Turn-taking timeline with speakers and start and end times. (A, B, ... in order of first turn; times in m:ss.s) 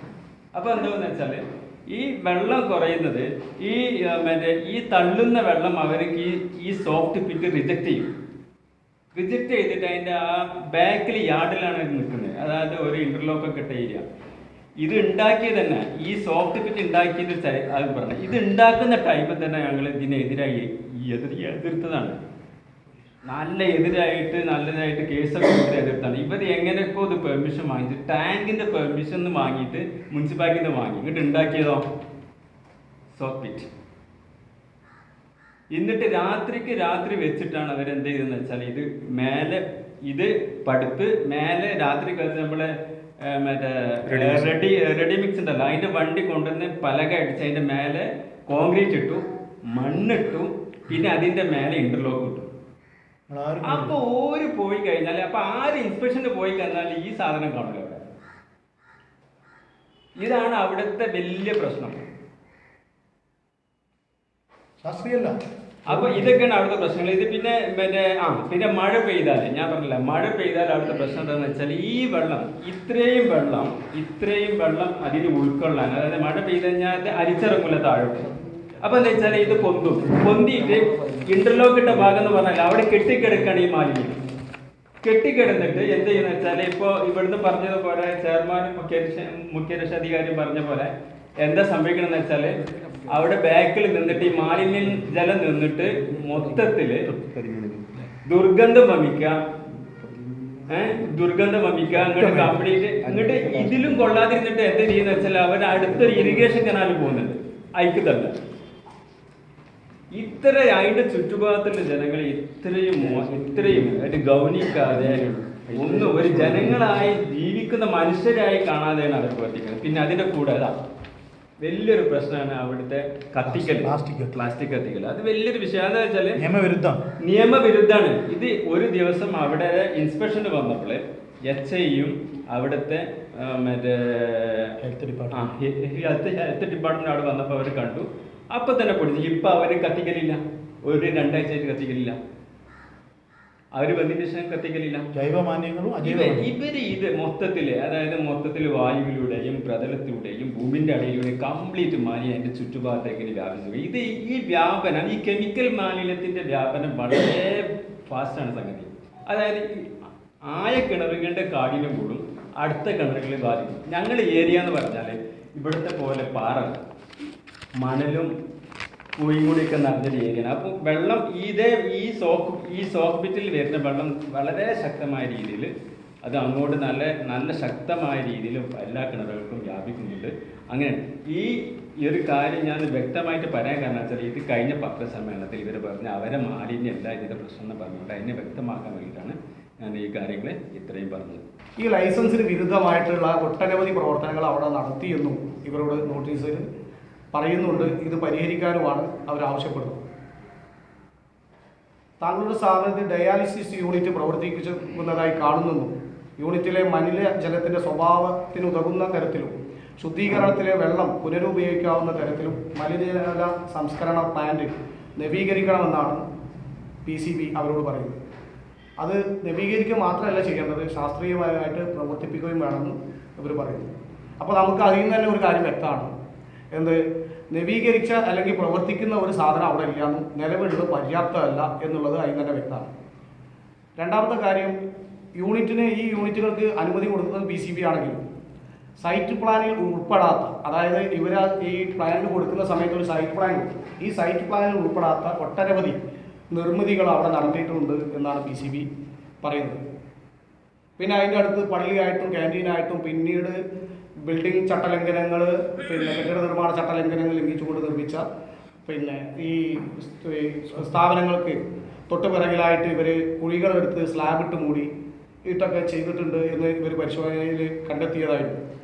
0:00.5-0:08.1 A
0:09.2-0:14.0 A
0:14.8-0:22.2 A
0:23.3-0:31.9 A
0:33.1-0:33.7 A
0:35.7-0:42.7 A
0:43.2-0:52.5 A
0:44.1-0:44.5 B
0:53.3-0:54.0 B
0:53.6-0:58.1 A
1:00.2-1:02.0 A
1:04.8-1:05.3 B
1:05.9-1:18.3 A
1:05.9-1:06.3 B
1:18.8-1:24.2 A
1:25.0-1:32.6 A
1:33.1-1:37.1 A
1:38.3-1:39.3 A
1:40.7-1:48.4 A
1:42.2-1:42.5 B
1:50.1-2:00.8 A
2:01.6-2:06.4 A
2:03.4-2:04.4 B
2:06.4-2:07.0 B
2:07.2-2:14.7 A
2:14.8-2:15.4 B
2:15.3-2:22.2 A
2:23.8-2:25.1 A
2:25.2-2:26.5 B
2:26.0-2:39.9 A
2:40.5-2:46.8 A
2:47.8-2:48.3 A
2:49.2-2:55.7 A
2:56.2-3:11.4 A
3:11.8-3:16.7 C
3:17.3-3:20.0 C
3:22.2-3:36.2 C
3:37.0-3:38.2 C
3:39.0-3:46.1 C
3:46.7-3:47.0 C
3:47.5-3:52.9 C
3:54.0-3:54.7 C
3:55.4-3:58.2 C
3:59.0-4:08.9 C
4:09.4-4:09.8 C
4:11.0-4:13.6 C
4:14.2-4:18.2 C
4:18.9-4:21.6 C
4:22.1-4:24.9 C
4:25.5-4:28.6 C